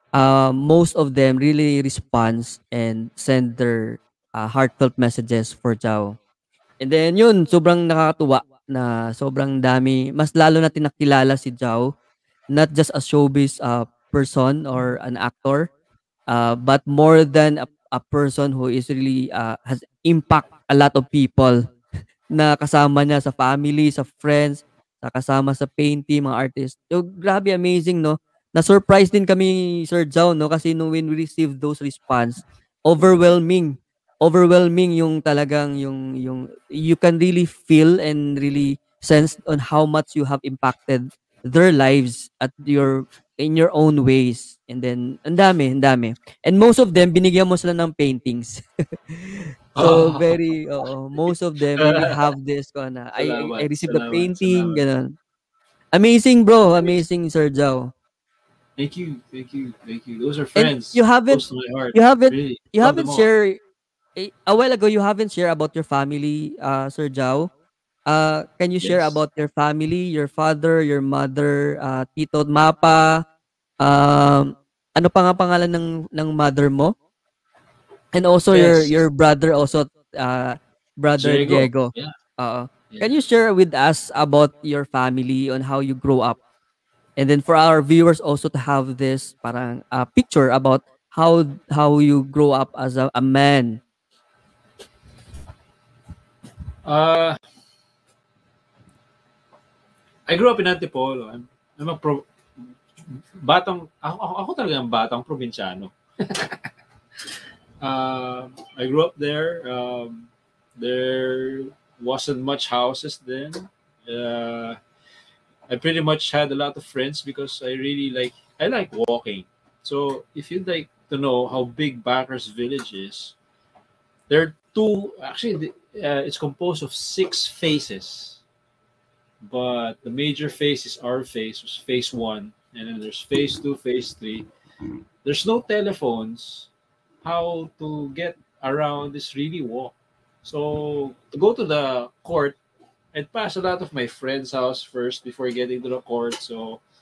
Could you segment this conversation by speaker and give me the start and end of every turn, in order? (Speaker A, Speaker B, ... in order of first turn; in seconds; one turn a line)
Speaker A: 0.2-6.2
Speaker A: 6.8-11.9
Speaker A: 12.5-15.7
Speaker A: 16.3-21.6
Speaker A: 22.3-55.1
Speaker B: 49.8-50.4
Speaker B: 51.8-52.1
Speaker B: 53.2-54.8
Speaker A: 55.9-57.9
Speaker B: 58.8-63.3
Speaker A: 60.6-61.4
Speaker A: 61.9-63.6
Speaker A: 64.2-67.5
Speaker A: 68.1-73.2
Speaker B: 68.8-69.2
Speaker A: 73.8-76.9
Speaker A: 78.1-86.4
Speaker B: 78.5-78.9
Speaker B: 81.2-82.1
Speaker A: 87.2-93.8
Speaker B: 96.8-97.4
Speaker B: 100.3-106.7
Speaker B: 107.8-114.8
Speaker B: 115.7-123.3
Speaker B: 124.3-128.4
Speaker B: 129.4-134.5
Speaker B: 135.2-136.7
Speaker B: 137.2-142.6
Speaker B: 143.1-146.8